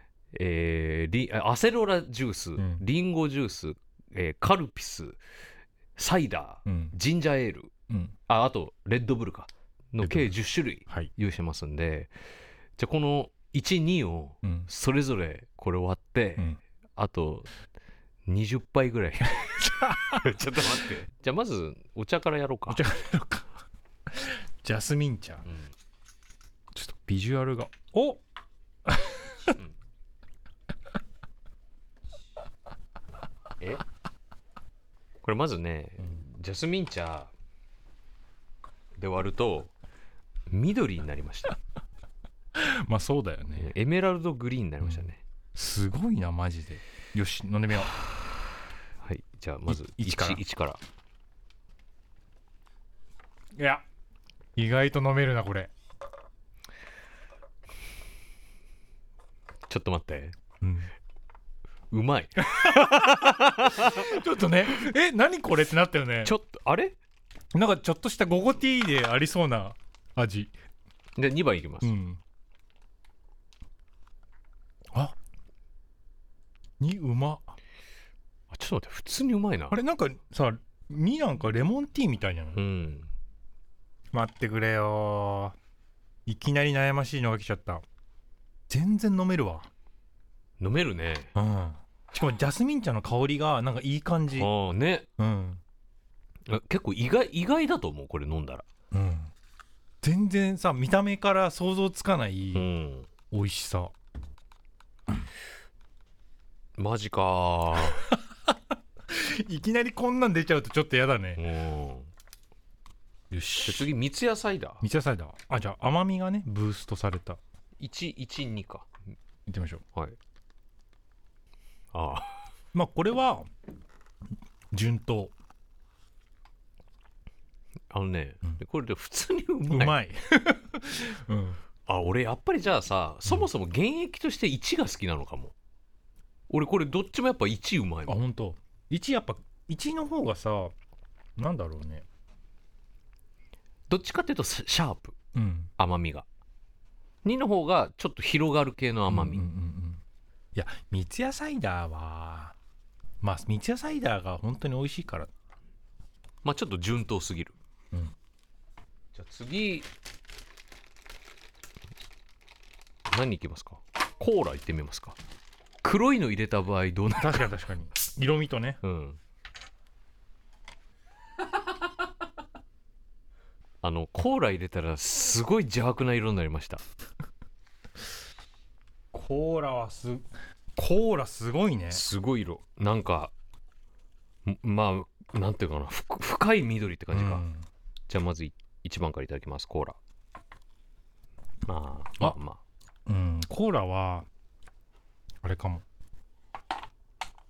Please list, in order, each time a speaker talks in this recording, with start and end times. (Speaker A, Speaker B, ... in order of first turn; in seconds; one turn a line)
Speaker A: 0.3-5.2
Speaker B: 2.6-2.8
Speaker A: 6.0-7.7
Speaker B: 6.7-6.9
Speaker A: 8.3-12.1
Speaker B: 10.0-10.3
Speaker A: 12.8-17.5
Speaker B: 14.4-14.7
Speaker A: 18.2-22.8
Speaker B: 19.2-20.9
Speaker B: 22.7-23.5
Speaker B: 24.1-25.4
Speaker B: 26.7-28.2
Speaker B: 28.9-29.6
Speaker A: 35.2-37.3
Speaker A: 39.0-39.7
Speaker A: 40.5-41.6
Speaker B: 42.5-43.7
Speaker A: 43.5-45.2
Speaker B: 44.8-48.0
Speaker A: 49.0-50.8
Speaker B: 49.7-50.4
Speaker B: 53.5-53.8
Speaker B: 54.5-55.7
Speaker A: 59.7-60.3
Speaker B: 60.6-60.9
Speaker A: 61.9-64.2
Speaker B: 62.4-66.3
Speaker A: 66.2-67.0
Speaker B: 67.5-70.5
Speaker A: 71.2-71.9
Speaker B: 71.8-72.2
Speaker B: 76.8-77.5
Speaker A: 78.5-79.8
Speaker B: 79.7-82.6
Speaker A: 82.5-83.1
Speaker B: 84.1-85.5
Speaker B: 86.2-87.8
Speaker B: 88.7-89.7
Speaker A: 90.6-91.3
Speaker B: 91.3-94.5
Speaker A: 94.3-95.1
Speaker B: 95.2-95.6
Speaker A: 96.5-98.6
Speaker B: 98.9-99.3
Speaker B: 100.0-102.7
Speaker A: 102.5-103.1
Speaker B: 103.3-103.9
Speaker A: 106.8-108.1
Speaker B: 107.9-108.6
Speaker B: 109.1-111.4
Speaker A: 111.4-112.1
Speaker B: 113.3-113.9
Speaker A: 113.6-114.8
Speaker B: 114.8-117.4
Speaker A: 117.8-118.9
Speaker B: 119.5-119.8
Speaker A: 121.9-122.4
Speaker B: 122.7-123.5
Speaker B: 124.7-125.3
Speaker A: 127.9-130.0
Speaker B: 129.7-131.6
Speaker A: 131.9-135.5
Speaker A: 136.5-138.2
Speaker B: 138.1-140.7
Speaker B: 141.4-142.0
Speaker A: 143.9-145.1
Speaker B: 145.3-145.7
Speaker A: 145.8-146.2
Speaker A: 147.2-149.4
Speaker B: 149.1-150.0
Speaker B: 150.5-152.5
Speaker B: 153.2-155.3
Speaker A: 156.4-157.5
Speaker A: 159.1-159.9
Speaker A: 163.1-165.2
Speaker A: 165.8-167.5
Speaker B: 167.1-168.8
Speaker A: 168.8-169.2
Speaker A: 173.8-176.8
Speaker B: 179.1-182.0
Speaker A: 181.9-183.3
Speaker A: 184.4-187.4
Speaker B: 187.1-187.7
Speaker A: 188.1-190.0
Speaker A: 191.7-192.6
Speaker B: 193.1-194.3
Speaker B: 195.4-195.8